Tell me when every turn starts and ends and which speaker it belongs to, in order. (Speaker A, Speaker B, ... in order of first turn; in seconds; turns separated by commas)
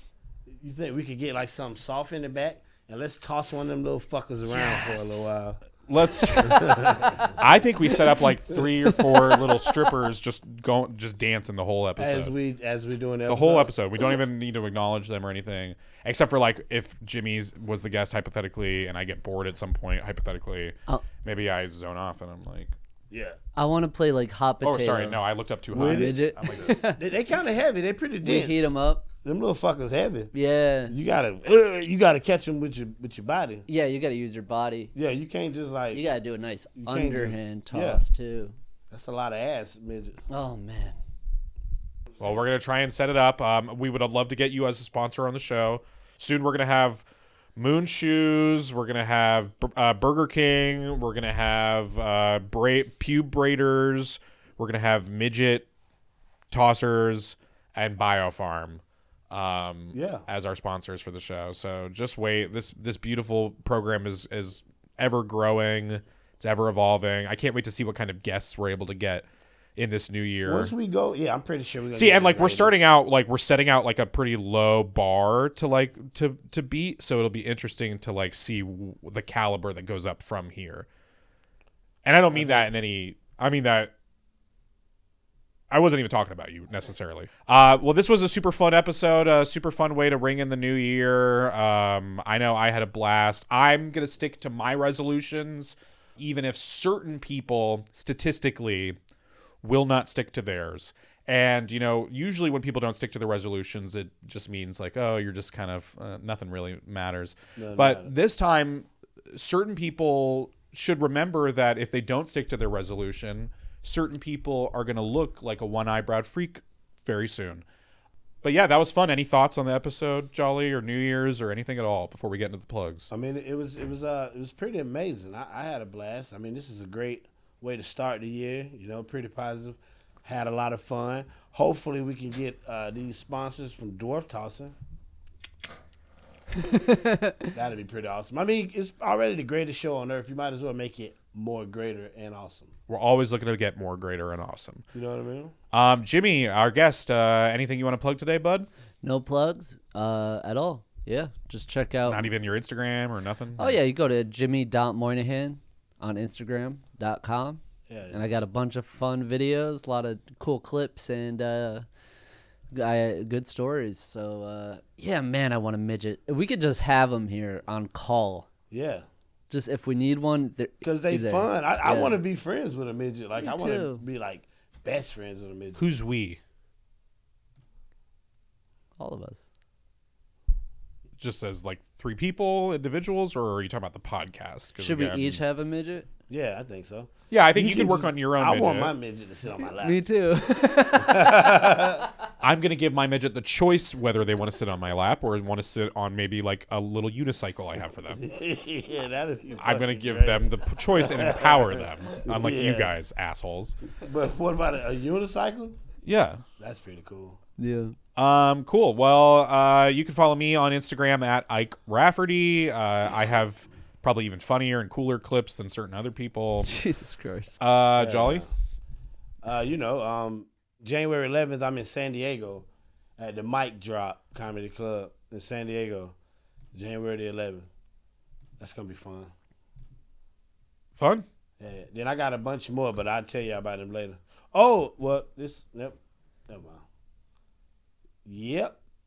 Speaker A: 0.6-5.6, Speaker B: 4.5-5.3, Speaker C: 5.9-12.3, Speaker A: 6.4-7.3, Speaker A: 12.0-13.7, Speaker C: 13.3-22.7, Speaker A: 23.1-23.4, Speaker B: 23.6-25.2, Speaker C: 24.6-26.7, Speaker A: 25.7-26.2, Speaker B: 25.7-27.1, Speaker A: 27.0-28.7, Speaker B: 28.2-29.0, Speaker A: 29.2-30.3, Speaker B: 30.3-30.9, Speaker A: 30.9-33.7, Speaker B: 33.7-34.9, Speaker A: 35.0-36.0, Speaker B: 35.9-38.5, Speaker A: 36.8-38.0, Speaker A: 38.9-40.2, Speaker B: 40.3-41.0, Speaker C: 42.2-47.0, Speaker C: 47.6-55.7, Speaker C: 56.5-70.7, Speaker A: 59.9-60.3, Speaker A: 70.5-72.9, Speaker C: 71.9-80.9, Speaker C: 82.0-83.9, Speaker C: 85.7-99.0, Speaker C: 99.6-117.6, Speaker A: 107.6-108.1, Speaker C: 118.4-123.1, Speaker A: 123.1-134.7, Speaker B: 136.6-137.5, Speaker A: 137.5-142.7, Speaker C: 142.9-144.8, Speaker A: 144.9-145.5, Speaker C: 145.7-148.7, Speaker B: 149.0-152.3, Speaker C: 152.1-153.8, Speaker B: 153.6-157.6, Speaker A: 157.9-158.2, Speaker B: 158.1-161.9, Speaker B: 162.7-168.5, Speaker A: 168.7-169.1, Speaker B: 169.5-172.2, Speaker A: 170.8-175.8, Speaker B: 173.4-174.0, Speaker C: 175.8-176.4, Speaker B: 179.0-179.4, Speaker C: 181.2-185.4, Speaker B: 184.8-186.1, Speaker A: 186.3-190.0, Speaker C: 187.3-188.9, Speaker B: 189.8-191.9, Speaker A: 190.9-192.1, Speaker C: 192.4-198.2, Speaker A: 198.1-202.9, Speaker C: 199.6-203.8, Speaker A: 204.0-205.8, Speaker C: 206.1-206.4, Speaker A: 206.6-207.4, Speaker B: 207.6-207.9, Speaker C: 208.2-216.8, Speaker B: 216.7-217.6, Speaker C: 217.6-218.4, Speaker A: 217.9-218.5, Speaker A: 219.4-222.6, Speaker A: 223.2-226.1, Speaker A: 226.7-227.7, Speaker A: 228.6-229.3, Speaker C: 231.0-231.3, Speaker A: 231.6-236.0, Speaker A: 236.5-236.8, Speaker A: 238.3-238.8